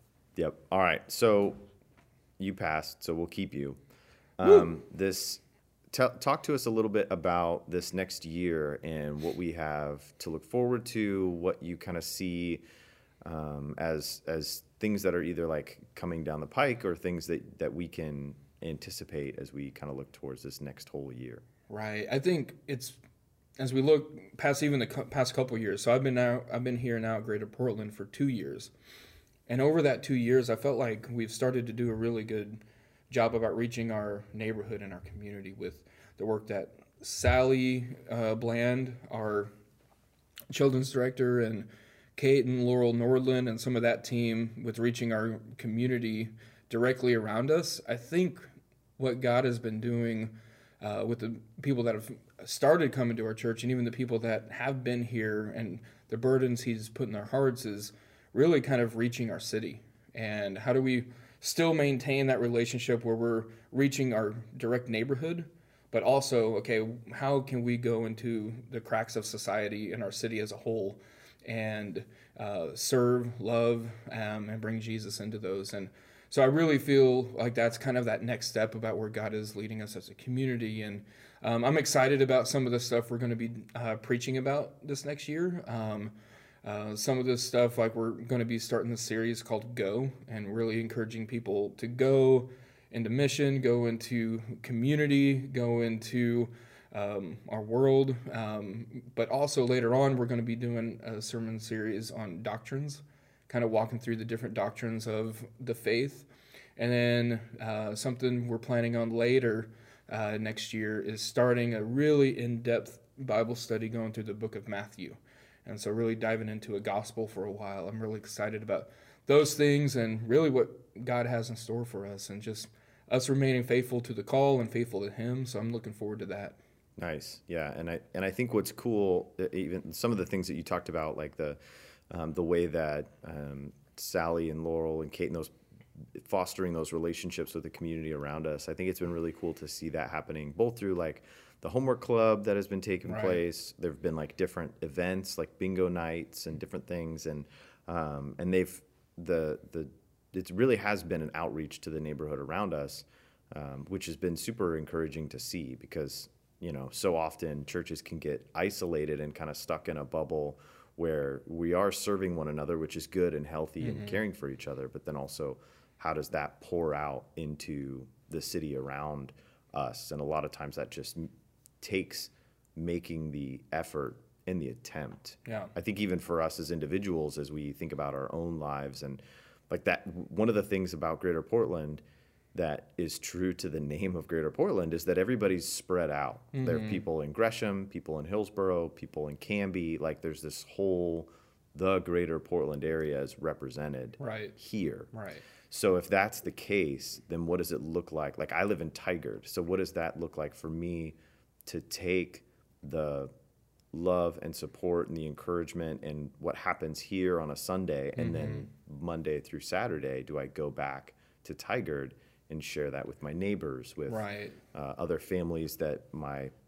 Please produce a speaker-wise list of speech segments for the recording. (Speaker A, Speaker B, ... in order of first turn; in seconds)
Speaker A: 0.4-1.6, 2.4-3.8, 4.4-12.6, 13.2-21.4, 127.0-131.6, 132.1-135.5, 136.2-171.3, 171.8-182.0, 182.5-195.1, 195.7-203.3, 203.9-216.5
Speaker B: 4.4-4.7, 21.7-23.0, 23.6-28.7, 29.5-39.5, 40.5-126.6, 143.1-143.4, 163.8-164.2, 175.5-175.7, 186.5-187.0, 194.2-194.6, 195.1-195.4, 208.2-208.7, 214.1-214.6